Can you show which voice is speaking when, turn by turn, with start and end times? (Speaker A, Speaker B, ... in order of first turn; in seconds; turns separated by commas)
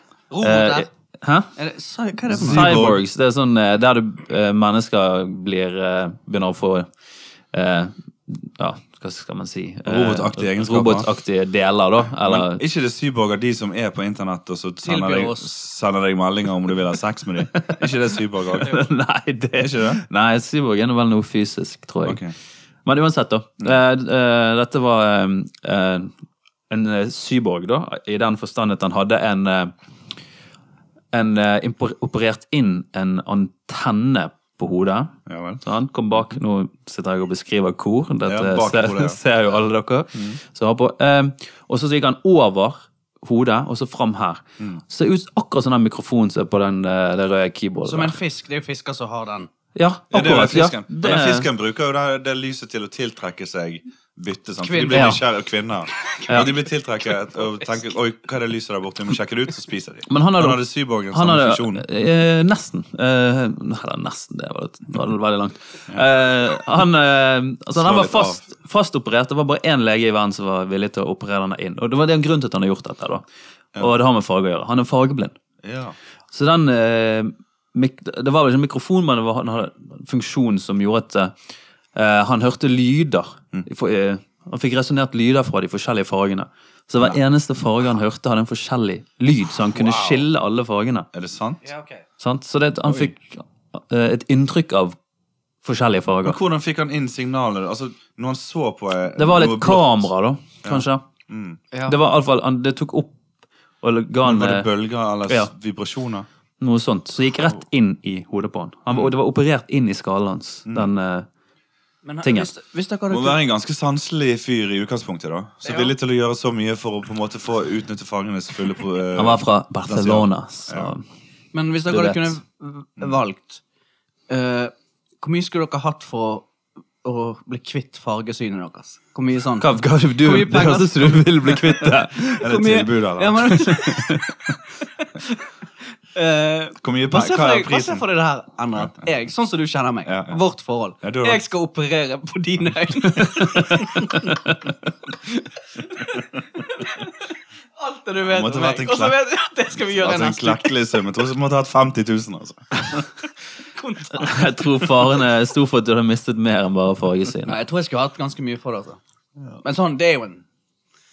Speaker A: 0.3-0.9, Speaker B: 0.4-1.5, Speaker A: 1.6-2.9, Speaker C: 2.3-3.0, Speaker B: 2.4-6.9, Speaker B: 7.5-12.6, Speaker C: 9.9-11.1, Speaker C: 12.2-18.8, Speaker A: 14.8-15.5, Speaker B: 17.6-22.2, Speaker C: 19.6-20.0, Speaker C: 22.0-22.4, Speaker B: 22.9-26.1, Speaker B: 26.7-29.7, Speaker B: 31.1-48.2, Speaker C: 35.3-35.6, Speaker C: 38.2-39.2, Speaker A: 47.9-49.5, Speaker B: 49.8-51.5, Speaker C: 50.1-61.9, Speaker A: 54.6-55.2, Speaker B: 54.9-55.2, Speaker B: 60.1-73.2, Speaker C: 67.8-68.4, Speaker B: 73.8-75.4, Speaker C: 75.6-76.0, Speaker B: 76.3-81.3, Speaker B: 82.0-91.1, Speaker C: 89.6-90.3, Speaker C: 91.1-91.6, Speaker A: 91.6-92.0, Speaker B: 92.2-95.0, Speaker C: 92.9-93.1, Speaker B: 95.6-96.4, Speaker C: 96.2-100.1, Speaker B: 99.2-101.0, Speaker C: 100.6-101.6, Speaker A: 101.7-102.0, Speaker B: 101.8-103.1, Speaker B: 103.8-104.7, Speaker C: 104.2-106.3, Speaker B: 106.6-111.3, Speaker C: 110.7-110.9, Speaker A: 112.0-113.4, Speaker B: 112.2-112.5, Speaker C: 113.1-120.9, Speaker A: 115.6-115.9, Speaker B: 119.2-121.0, Speaker A: 121.5-123.6, Speaker B: 121.9-122.4, Speaker A: 124.3-126.5, Speaker A: 127.0-134.2, Speaker B: 129.6-132.5, Speaker C: 132.4-134.0, Speaker B: 133.7-134.3, Speaker A: 135.0-135.4, Speaker A: 136.1-144.4, Speaker C: 136.8-138.1, Speaker C: 140.1-140.4, Speaker C: 141.0-141.4, Speaker A: 145.1-150.8, Speaker C: 148.2-149.2, Speaker C: 149.9-153.1, Speaker A: 153.7-155.2, Speaker B: 154.1-157.6, Speaker A: 157.4-159.0, Speaker A: 159.6-160.4